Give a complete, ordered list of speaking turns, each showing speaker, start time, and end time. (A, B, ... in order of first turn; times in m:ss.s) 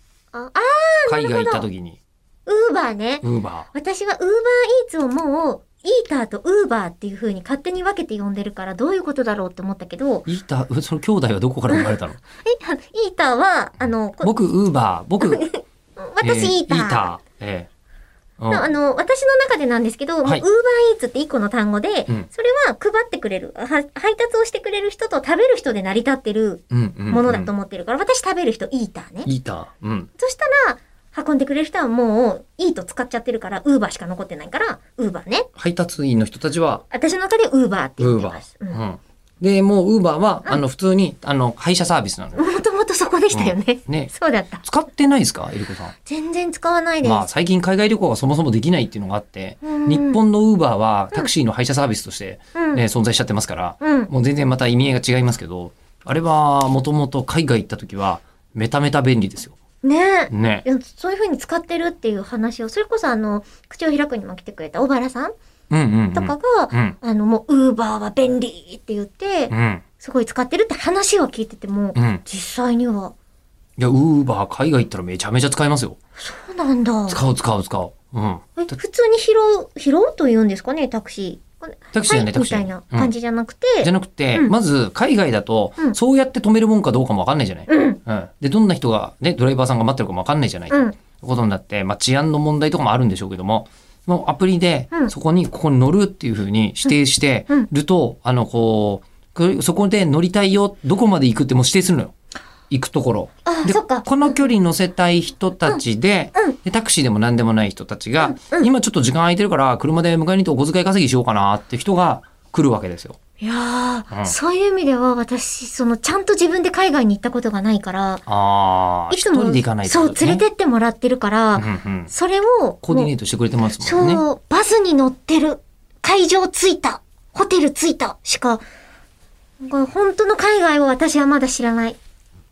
0:00.3-0:01.7 A
0:01.1-0:02.0 B
0:02.4-0:10.3 A
0:03.2-0:03.7 B
0:10.2-0:12.2 B
0:12.4-0:14.3 A
0:14.2-0:15.4 B
0:15.2-0:17.0 A
0:16.2-0:17.7 B
0:18.4-0:18.7 B
0:18.5-0:29.3 A
0:26.7-0:27.5 B
0:29.2-0:30.1 B
0:30.2-0:35.5 A
0:35.6-0:36.8 B
0:36.9-0:38.8 A
0:38.0-0:42.4 B
0:42.4-0:44.6 A
0:43.3-0:44.1 B
0:44.6-0:45.9 B
0:46.0-0:47.2 A
0:47.0-0:59.6 B
0:49.6-0:50.2 A
0:52.5-0:52.8 A
0:53.8-0:54.1 A
0:59.8-1:05.3 A
1:00.3-1:00.6 B
1:05.7-1:07.0 B
1:06.1-1:13.1 A
1:09.5-1:09.8 B
1:11.9-1:12.2 B
1:13.8-1:16.0 B
1:16.2-1:17.2 A
1:17.1-1:18.6 B
1:18.6-1:24.5 A
1:21.9-1:23.1 B
1:23.8-1:42.1 B
1:27.7-1:28.0 A
1:30.7-1:31.0 A
1:42.7-1:53.2 B
1:43.4-1:44.5 A
1:48.2-1:48.7 A
1:53.4-1:58.2 A
1:58.3-2:00.4 B
1:59.1-2:03.1 A
2:01.6-2:02.1 B
2:02.8-2:04.2 B
2:03.8-2:08.6 A
2:09.6-2:12.0 A